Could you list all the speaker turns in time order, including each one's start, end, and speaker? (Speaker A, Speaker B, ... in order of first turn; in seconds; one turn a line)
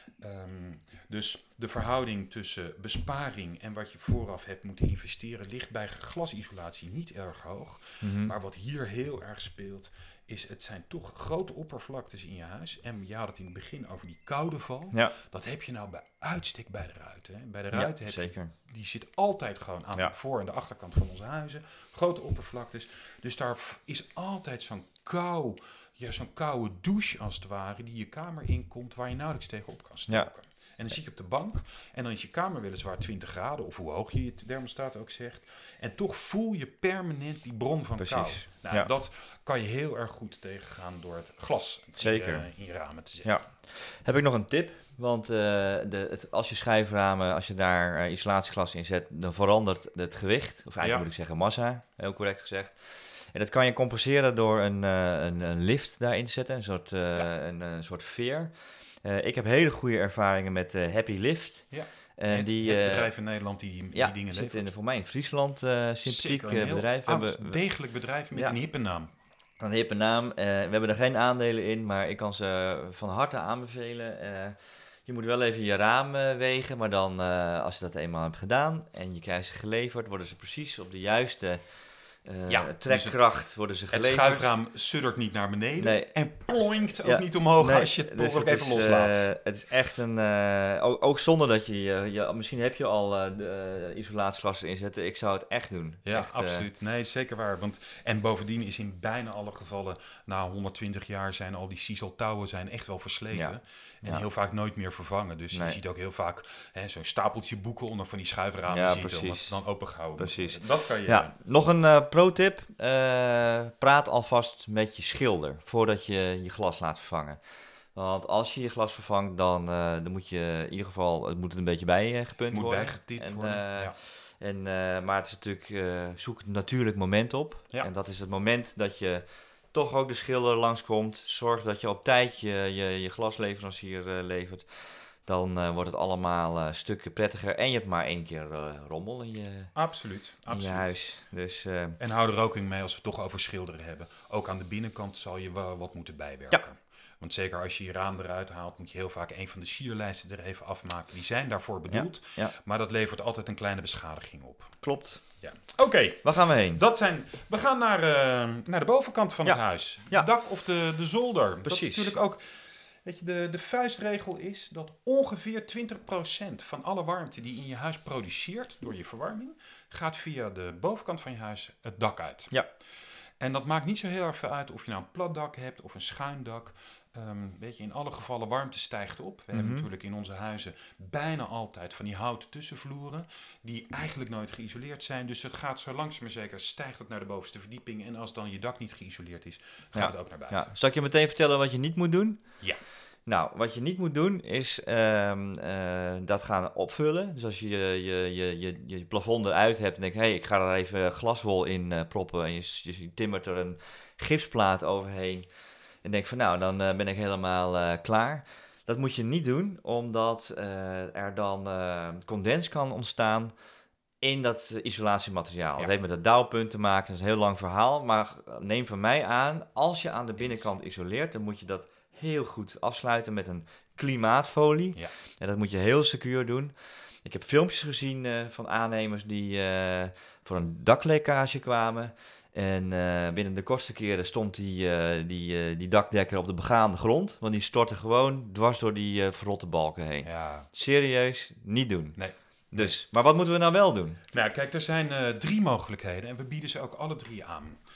Speaker A: 0.2-43.4
Speaker B: 8.0-8.3
Speaker B: 17.7-18.5
Speaker B: 38.0-38.9
Speaker B: 42.0-42.5
Speaker B: 43.2-63.1
Speaker A: 50.8-51.1
Speaker A: 61.7-64.7
Speaker B: 63.9-67.6
Speaker A: 66.0-69.1
Speaker B: 69.6-84.4
Speaker A: 82.5-83.2
Speaker A: 83.9-89.3
Speaker B: 85.8-86.1
Speaker B: 87.0-96.7
Speaker A: 96.0-111.3
Speaker B: 105.5-105.8
Speaker B: 108.7-109.5
Speaker B: 110.2-139.7
Speaker A: 122.5-124.0
Speaker A: 139.7-140.9
Speaker B: 140.5-142.0
Speaker A: 142.0-154.8
Speaker B: 151.9-152.5
Speaker B: 154.8-155.2
Speaker A: 155.4-172.5
Speaker B: 156.2-156.8
Speaker B: 159.4-160.3
Speaker B: 161.6-162.2
Speaker A: 173.4-190.7
Speaker B: 179.5-179.8
Speaker B: 189.9-192.5
Speaker B: 193.2-205.5
Speaker B: 206.0-213.5
Speaker B: 214.2-242.2
Speaker A: 240.2-240.7
Speaker A: 242.2-242.9
Speaker B: 242.7-244.2
Speaker A: 244.3-247.8